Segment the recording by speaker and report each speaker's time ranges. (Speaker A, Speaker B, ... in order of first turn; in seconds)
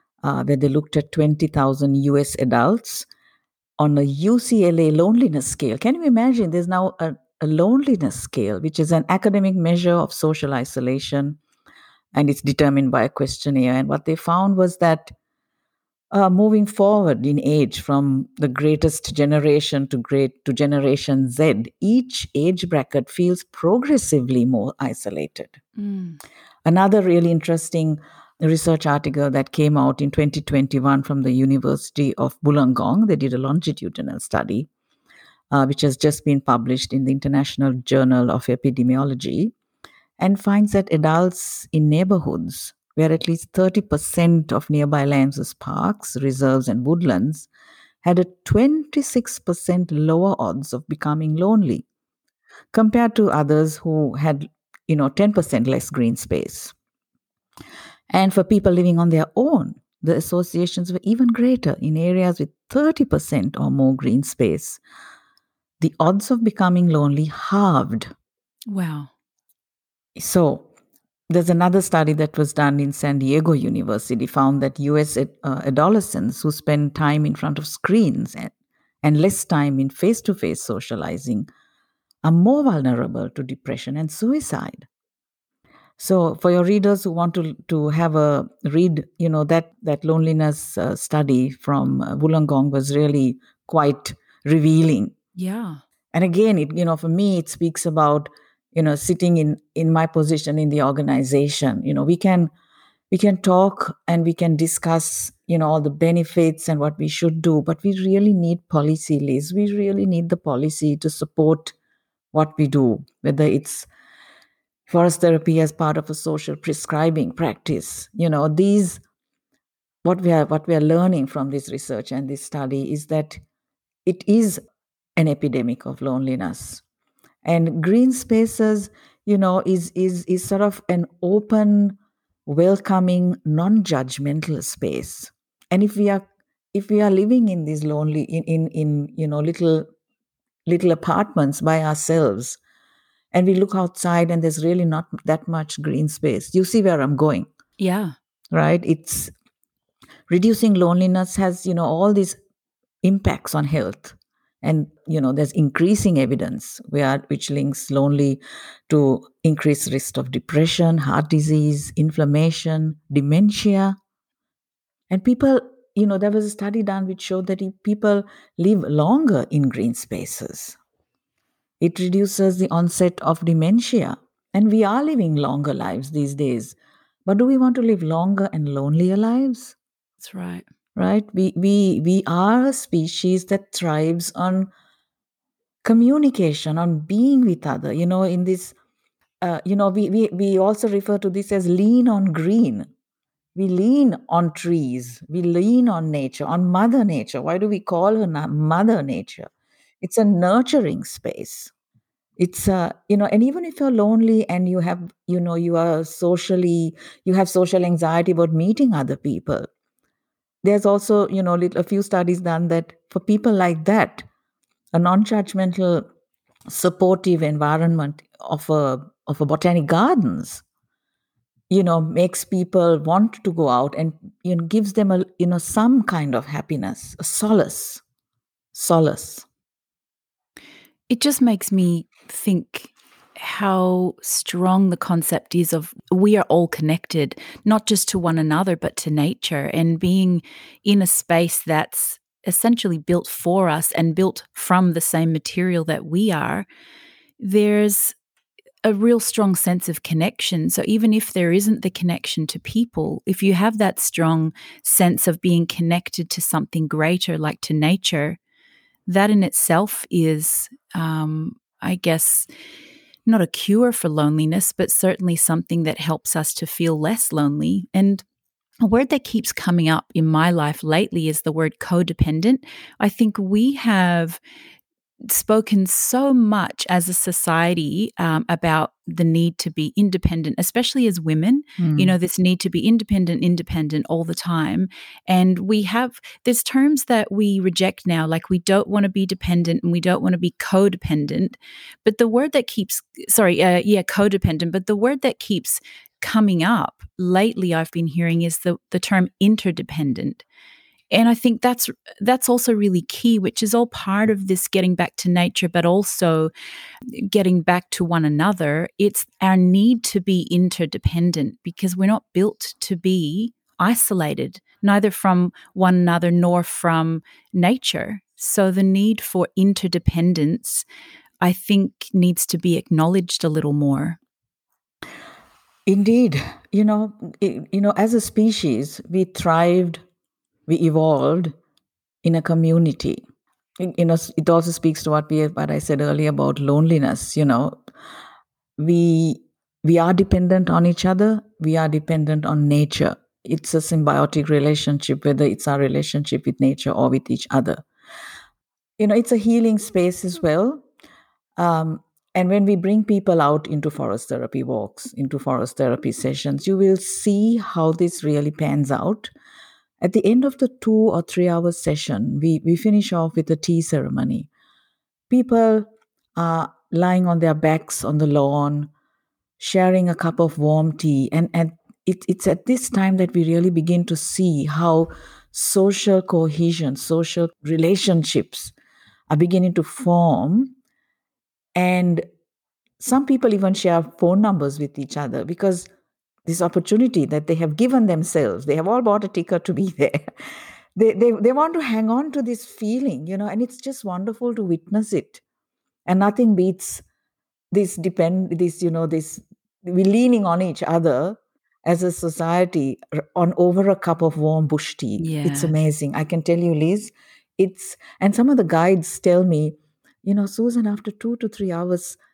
Speaker A: 0.2-3.1, 3.8-11.4, 12.1-15.1, 16.1-25.6, 26.6-34.7, 35.5-39.5, 40.2-47.5, 48.0-51.8, 52.7-56.7, 58.1-64.8, 65.8-68.1, 70.2-70.7, 71.3-78.5, 79.0-81.5, 82.2-84.9, 86.0-95.1, 96.1-102.5, 103.1-111.7, 112.3-113.9, 114.9-119.0, 120.0-123.4, 124.0-124.6, 125.2-126.8, 127.4-139.9, 140.7-142.6, 143.3-147.5, 148.5-149.3, 150.3-152.4, 153.0-164.0, 165.1-170.8, 171.8-179.7, 180.9-184.7, 185.8-188.7, 189.4-192.9, 193.6-199.5, 200.0-201.7, 202.4-209.7, 210.6-214.2, 214.9-216.1, 216.7-220.6, 221.7-228.0, 228.7-229.4, 281.8-282.1, 325.9-330.0, 330.7-331.5, 332.2-333.2, 333.8-337.8, 338.8-347.8, 349.0-350.8, 351.6-359.3, 360.0-364.5, 365.3-368.9, 369.6-378.7, 379.3-380.7, 381.8-382.2, 383.0-385.9, 386.4-390.2, 390.9-395.4, 396.1-397.0, 397.7-412.2
Speaker B: 25.8-26.2, 68.7-69.1, 95.3-95.8, 147.8-148.1, 180.2-180.6, 231.1-246.7, 247.4-248.2, 248.8-258.4, 259.1-262.5, 263.2-268.2, 268.8-274.4, 275.2-300.4, 301.1-306.5, 307.1-320.8, 321.4-324.2, 405.2-405.7